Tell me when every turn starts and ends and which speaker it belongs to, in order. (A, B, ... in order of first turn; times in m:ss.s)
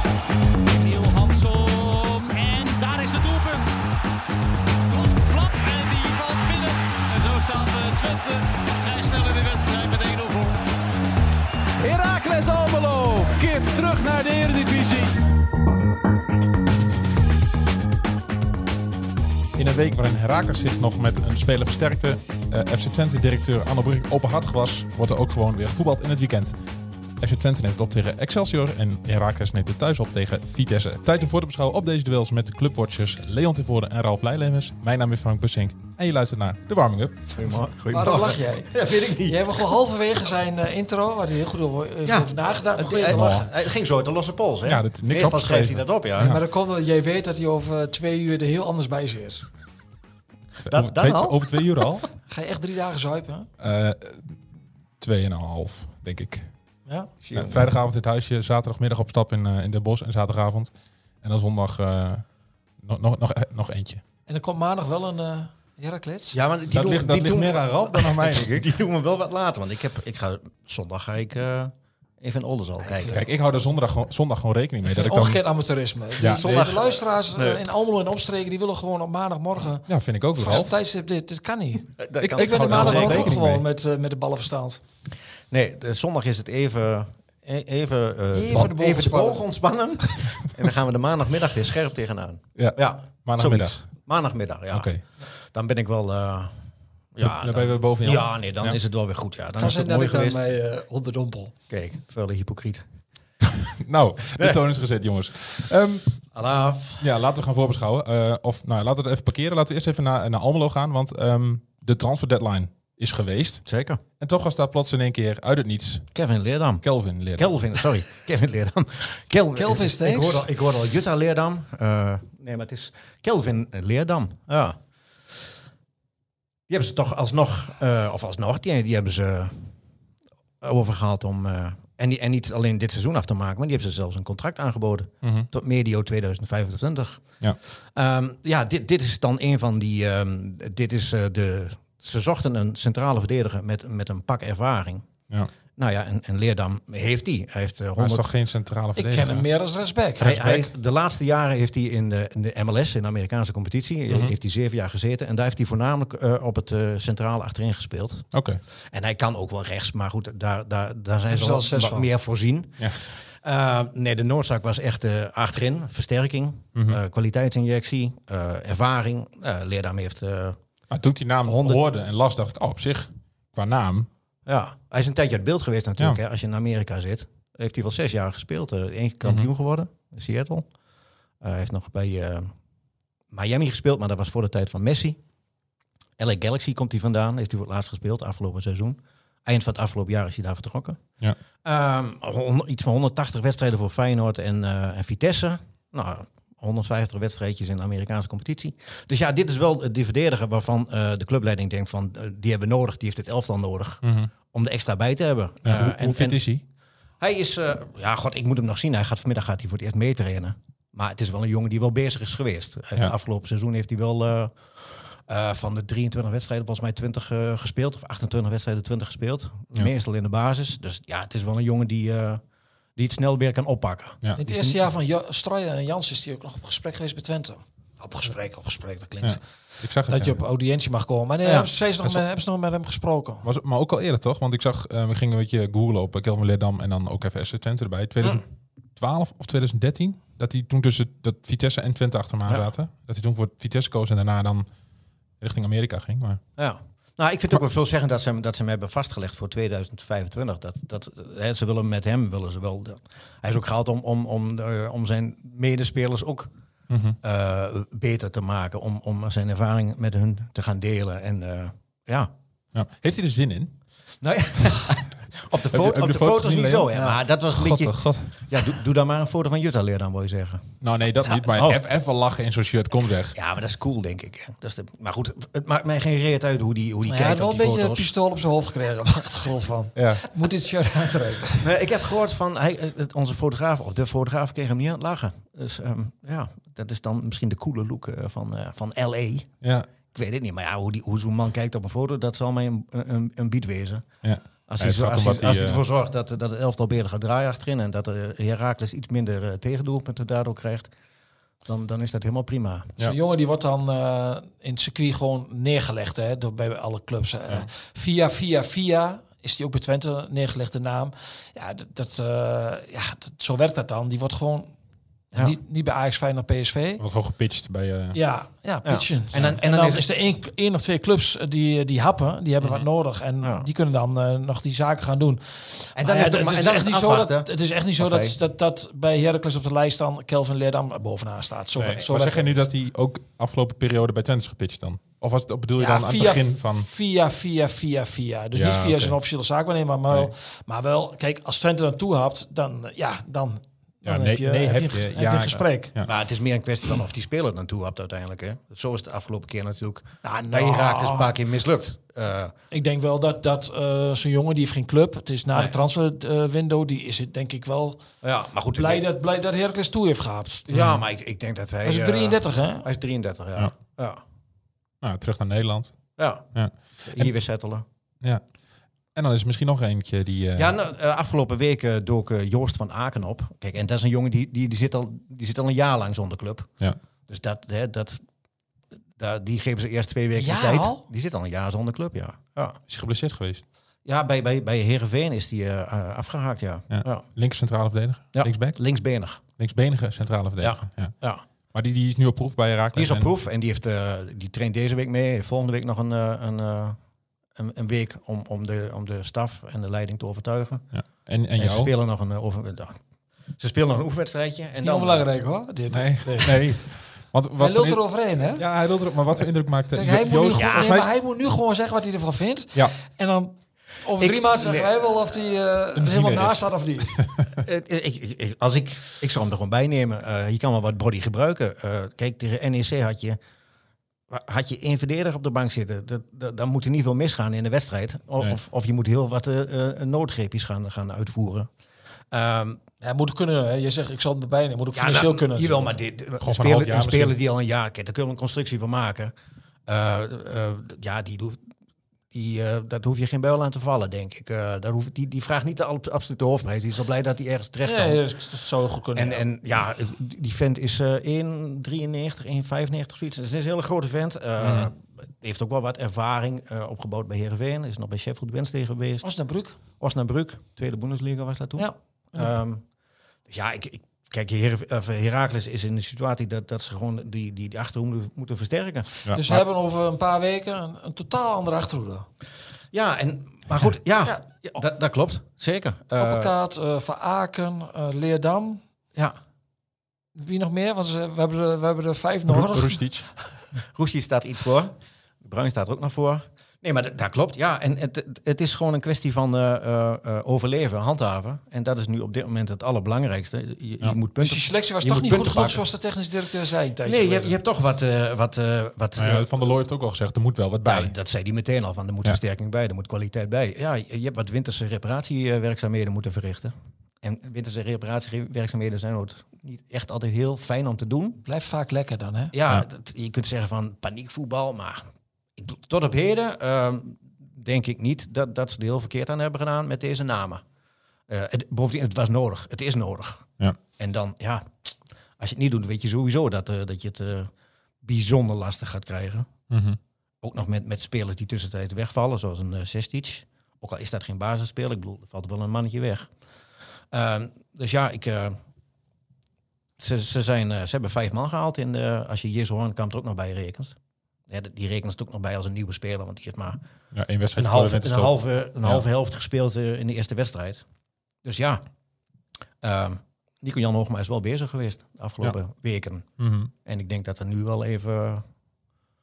0:00.6-0:03.7 A
0:04.9-0:10.7 A
0:11.8-0:15.1 A
0:19.6-0:26.6 B
0:27.2-0:37.3 B
0:37.4-0:39.7 C
0:37.9-0:43.5 A
0:42.0-0:46.4 C
0:43.1-0:43.5 B
0:44.6-0:46.4 B
0:46.2-0:49.5 A
0:50.6-0:52.1 B
0:50.7-0:52.0 C
0:52.3-0:53.5 A
0:53.6-0:54.4 B
0:55.0-0:56.5 B
0:56.8-0:57.1 A
0:57.2-0:57.7 C
0:57.3-1:00.7 B
1:01.2-1:02.2 B
1:02.8-1:04.0 B
1:04.3-1:06.4 A
1:06.3-1:13.2 C
1:06.7-1:08.6 B
1:12.8-1:13.2 A
1:13.1-1:15.4 B
1:14.8-1:24.8 A
1:16.2-1:16.5 B
1:16.2-1:17.6 C
1:19.9-1:20.7 B
1:22.0-1:23.3 C
1:22.2-1:23.6 B
1:25.5-1:34.9 C
1:28.3-1:29.4 A
1:32.6-1:33.8 B
1:34.7-1:35.0 B
1:35.5-1:36.6 C
1:37.1-1:40.4 C
1:37.2-1:38.8 B
1:39.6-1:41.5 A
1:41.7-1:42.8 C
1:43.8-1:46.2 B
1:46.3-1:47.1 C
1:47.0-1:53.6 B
1:53.6-1:54.0 C
1:54.2-1:56.1 B
1:56.1-1:56.8 C
1:56.8-1:57.5 B
1:57.3-2:04.8 C
1:59.5-2:00.4 A
2:06.7-2:09.7 C
2:10.6-2:25.1 C
2:15.2-2:15.5 B
2:25.8-2:28.3 C
2:28.0-2:29.4 B
2:29.0-2:30.6 A
2:30.2-2:38.2 C
2:34.1-2:34.3 B
2:38.3-2:38.6 B
2:38.9-2:50.6 C
2:41.3-2:42.1 A
2:50.9-2:54.1 B
2:51.4-2:51.8 C
2:54.4-3:00.7 C
3:01.4-3:02.5 C
3:03.3-3:05.2 C
3:06.2-3:11.0 C
3:11.6-3:26.4 C
3:24.0-3:24.3 B
3:25.6-3:26.6 B
3:27.2-3:42.4 C
3:43.0-3:44.8 C
3:44.4-3:49.4 A
3:49.2-3:50.4 B
3:50.0-3:53.4 A
3:51.4-3:51.7 C
3:53.4-3:58.4 B
3:59.0-4:04.6 B
4:05.4-4:06.4 B
4:06.6-4:16.5 C
4:16.9-4:17.2 B
4:17.2-4:22.3 C
4:22.7-4:23.7 B
4:24.2-4:31.8 C
4:25.7-4:28.4 B
4:30.8-4:33.4 B
4:33.3-4:38.1 C
4:37.0-4:41.7 A
4:39.9-4:40.2 B
4:41.6-4:49.5 C
4:50.1-4:54.0 C
4:54.2-4:55.8 B
4:54.7-5:00.9 C
5:01.6-5:03.0 C
5:03.0-5:14.7 A
5:15.4-5:17.0 A
5:17.0-5:18.2 B
5:18.1-5:32.6 A
5:18.8-5:20.1 C
5:23.4-5:23.7 C
5:26.0-5:28.4 C
5:31.8-5:36.9 B
5:35.8-5:46.0 A
5:38.5-5:39.1 C
5:38.8-5:39.0 B
5:44.0-5:46.1 B
5:46.0-5:52.5 C
5:50.2-5:51.3 A
5:52.7-5:58.0 A
5:58.2-5:59.0 C
5:58.7-6:00.7 A
6:00.7-6:04.2 C
6:00.7-6:01.0 B
6:01.8-6:02.8 A
6:05.0-6:06.0 B
6:06.2-6:06.4 C
6:06.5-6:07.3 B
6:07.0-6:07.8 C
6:09.1-6:10.7 B
6:10.6-6:16.7 C
6:17.3-6:18.2 C
6:19.2-6:22.8 C
6:20.4-6:21.0 A
6:22.9-6:23.6 B
6:24.0-6:27.2 C
6:26.9-6:28.8 B
6:28.3-6:29.4 C
6:29.6-6:31.1 B
6:30.6-6:31.4 C
6:31.7-6:33.3 B
6:32.9-6:37.0 C
6:37.6-6:40.8 C
6:40.9-6:41.9 B
6:41.6-6:43.0 C
6:43.6-6:45.2 C
6:44.8-6:46.7 A
6:45.9-6:51.1 B
6:47.6-6:48.6 A
6:49.9-6:57.2 A
6:50.5-6:51.0 C
6:54.2-6:54.9 C
6:56.0-6:56.7 B
6:57.6-7:03.4 C
7:04.3-7:11.7 C
7:12.3-7:12.8 C
7:13.0-7:15.9 A
7:14.9-7:19.3 C
7:16.4-7:17.4 B
7:19.9-7:21.6 C
7:22.3-7:28.2 C
7:27.8-7:29.4 A
7:29.2-7:39.3 C
7:34.6-7:34.9 B
7:39.2-7:39.8 A
7:40.0-7:42.8 C
7:41.8-7:42.5 A
7:43.5-7:49.1 C
7:49.2-7:49.6 B
7:49.3-7:52.2 A
7:52.9-7:56.5 C
7:56.2-7:58.8 A
8:00.4-8:03.1 A
8:02.5-8:03.2 B
8:03.8-8:15.8 C
8:14.4-8:17.6 A
8:17.0-8:19.5 C
8:19.2-8:21.1 B
8:20.8-8:31.4 C
8:31.4-8:32.5 A
8:32.5-8:35.0 C
8:35.6-8:40.6 C
8:41.3-8:44.7 C
8:45.4-8:47.5 C
8:48.0-8:49.5 C
8:49.7-8:50.0 B
8:50.4-8:56.3 C
8:57.1-8:58.6 C
9:00.0-9:04.0 C
9:04.5-9:06.8 C
9:07.1-9:09.0 B
9:07.6-9:10.8 C
9:11.4-9:11.8 C
9:12.8-9:16.3 C
9:16.4-9:16.7 B
9:16.8-9:18.4 C